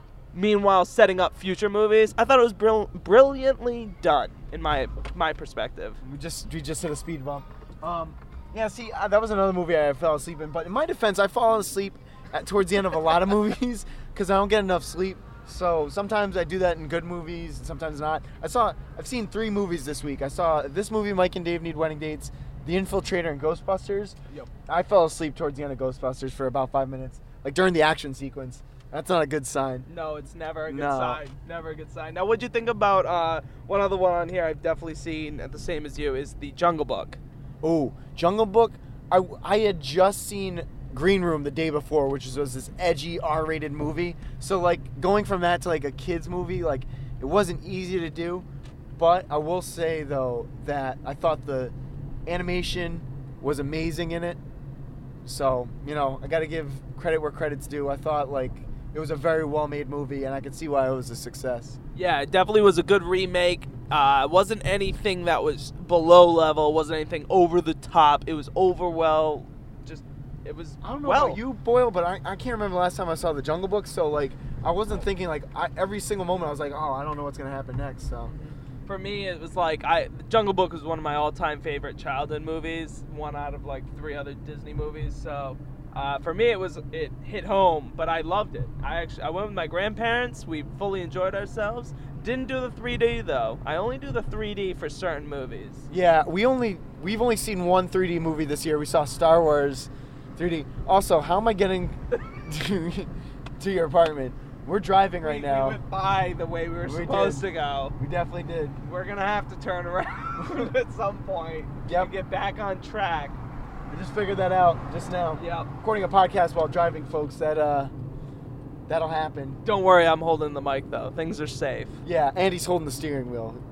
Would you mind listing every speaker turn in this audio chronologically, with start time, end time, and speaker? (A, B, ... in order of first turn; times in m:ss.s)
0:00.3-0:06.0 A
0:06.0-0:24.2 B
0:24.7-0:29.9 B
0:29.9-0:37.2 A
0:30.7-0:31.2 B
0:37.6-0:51.7 B
0:52.3-0:54.4 B
0:55.2-1:01.8 B
1:02.0-1:11.4 A
1:10.8-1:18.3 B
1:18.3-1:35.9 A
1:35.9-1:45.8 B
1:45.2-1:48.0 A
1:46.8-1:48.8 B
1:48.8-1:53.4 A
1:51.8-1:52.1 B
1:53.9-1:57.9 B
1:55.4-1:55.7 A
1:58.9-1:59.6 B
1:59.6-2:02.0 A
2:02.0-2:03.6 B